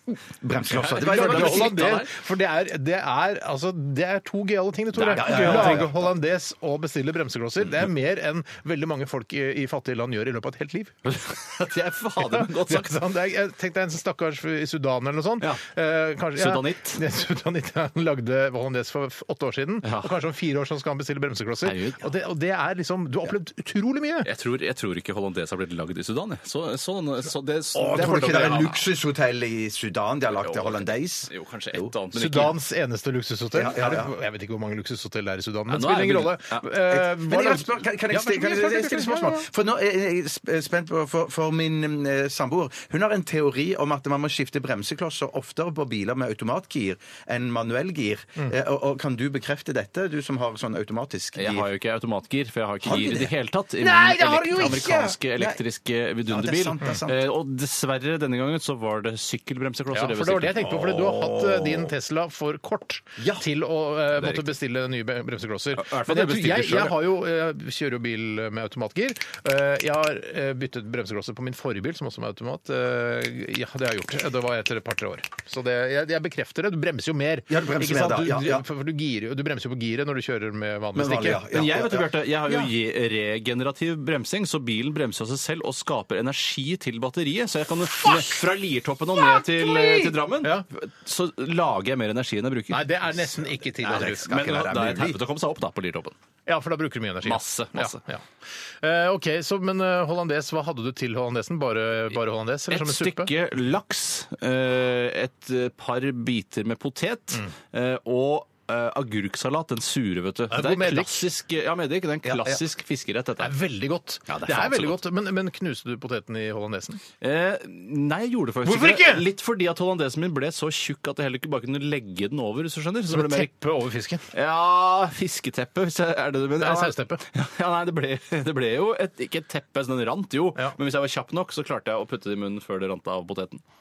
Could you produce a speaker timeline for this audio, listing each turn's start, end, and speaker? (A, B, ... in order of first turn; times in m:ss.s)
0:00.4-0:02.0 A
0:00.8-0:02.1 B
0:00.8-0:11.0 C
0:05.0-0:05.9 B
0:05.1-0:05.9 A
0:11.1-0:13.0 B
0:12.2-0:24.3 C
0:16.4-0:17.0 B
0:19.8-0:20.1 B
0:21.6-0:22.1 B
0:24.2-0:28.8 B
0:27.8-0:31.9 A
0:27.9-0:28.7 C
0:30.4-0:32.6 B
0:32.1-0:39.5 C
0:33.5-0:34.1 A
0:35.7-0:36.6 B
0:36.9-0:51.7 A
0:51.4-1:01.3 B
0:52.8-0:55.6 A
0:56.3-0:57.2 A
0:59.9-1:21.6 C
1:00.9-1:01.2 A
1:03.2-1:03.4 A
1:04.2-1:04.5 B
1:05.8-1:07.0 B
1:17.5-1:18.6 A
1:21.0-1:22.7 A
1:21.5-1:33.0 B
1:29.2-1:30.2 A
1:32.7-1:34.4 C
1:33.8-1:35.2 A
1:34.0-1:36.2 B
1:36.5-1:38.2 C
1:37.2-1:38.0 B
1:38.8-1:43.3 C
1:42.7-1:53.5 B
1:50.5-1:51.3 C
1:52.3-1:52.6 A
1:53.4-1:57.0 C
1:54.3-1:55.0 B
1:57.2-2:03.5 B
1:58.6-1:59.3 C
2:03.1-2:04.3 C
2:04.3-2:13.6 B
2:06.6-2:07.2 C